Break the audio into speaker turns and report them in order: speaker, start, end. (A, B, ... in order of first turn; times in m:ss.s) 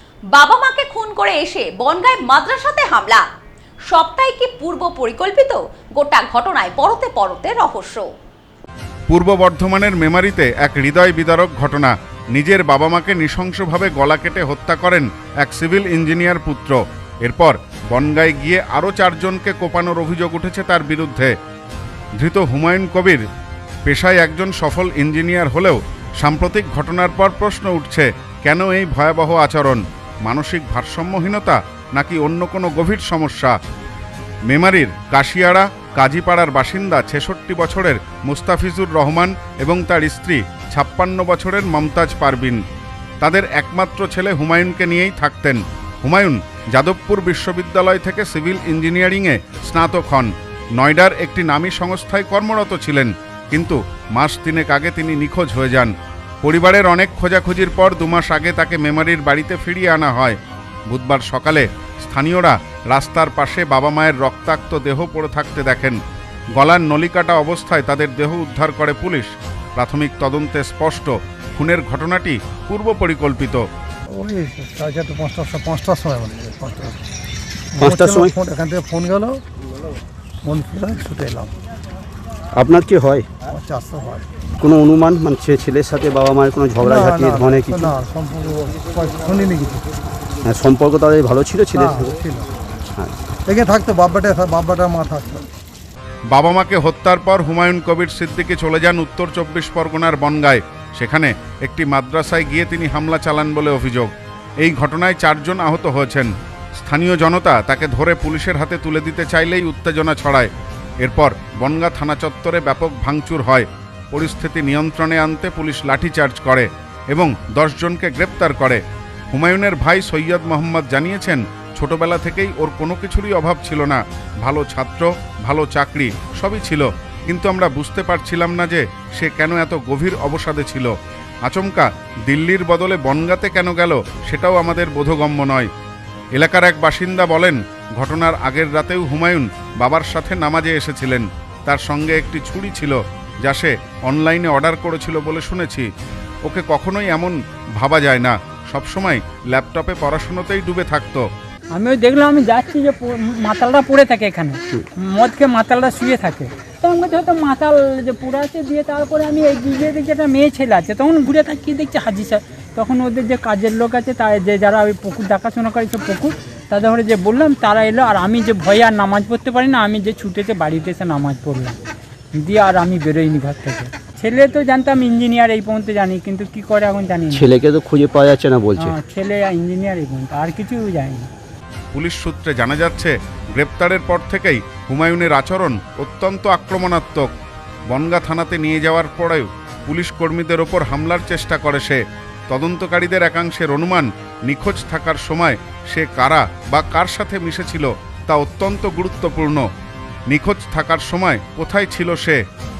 0:00.3-0:03.2 A
0:03.9-0:08.0 A
0:09.1-0:21.3 B
0:22.2-0:23.2 B
0:23.9-0:33.5 B
0:34.5-0:42.6 B
0:43.2-0:55.9 B
0:56.4-1:00.4 B
1:00.9-1:06.0 B
1:06.6-1:13.6 B
1:14.1-1:17.0 C
1:17.8-1:18.3 D
1:17.8-1:19.4 C
1:20.4-1:21.5 C
1:22.6-1:23.3 D
1:23.5-1:24.3 C
1:24.6-1:28.0 D
1:26.8-1:29.8 C
1:30.4-1:32.2 D
1:31.7-1:32.4 C
1:33.4-1:35.4 C
1:36.3-1:44.1 B
1:44.6-1:50.5 B
1:51.0-1:58.8 B
1:59.3-2:10.9 B
2:11.4-2:15.7 B
2:16.3-2:25.9 B
2:26.4-2:31.2 B
2:31.7-2:51.8 E
2:52.4-2:57.5 E
2:57.3-2:58.9 D
2:58.8-3:01.3 E
3:01.9-3:07.3 B
3:07.9-3:19.6 B
3:20.3-3:22.4 B